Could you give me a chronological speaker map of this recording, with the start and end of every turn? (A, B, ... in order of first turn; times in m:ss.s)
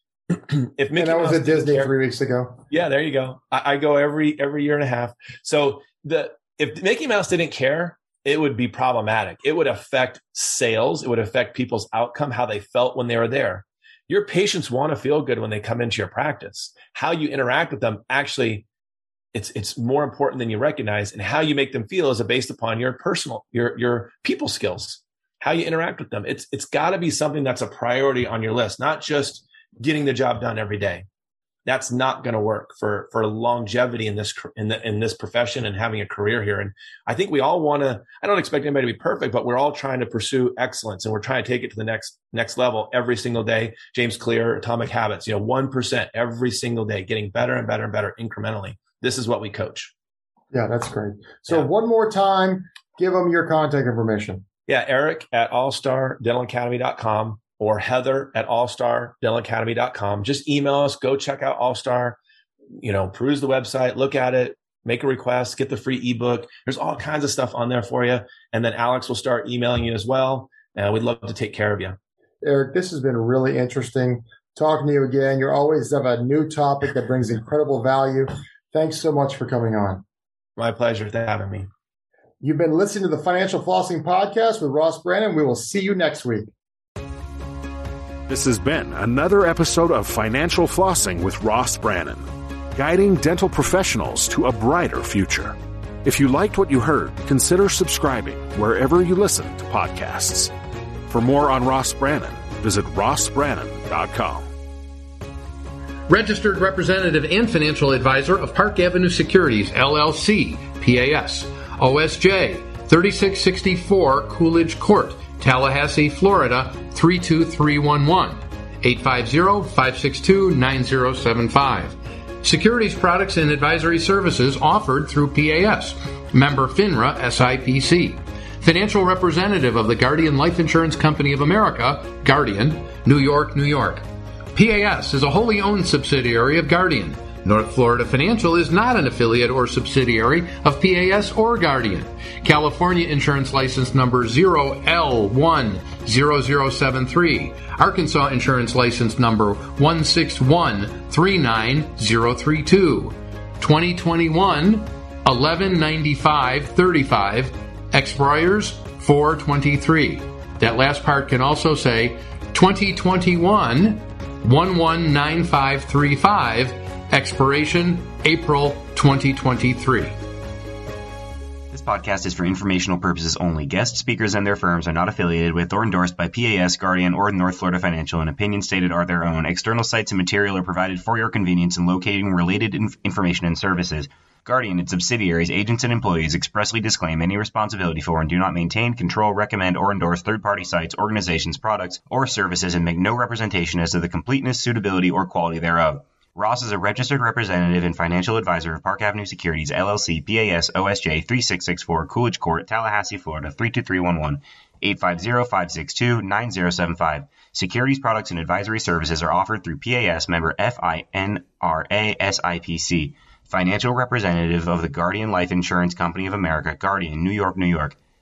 0:00.3-0:01.9 A
0:01.0-0:02.6 B
0:02.7-0:18.6 A
0:19.3-0:31.0 A
0:31.7-0:49.9 A
0:50.5-0:54.4 B
0:54.7-1:02.2 A
1:02.8-1:12.0 A
1:12.4-1:20.0 B
1:20.6-1:21.7 A
1:22.4-1:26.5 B
1:28.3-1:32.2 C
1:32.8-1:40.5 C
1:41.1-1:44.5 C
1:46.1-2:50.2 D
2:51.7-3:38.0 E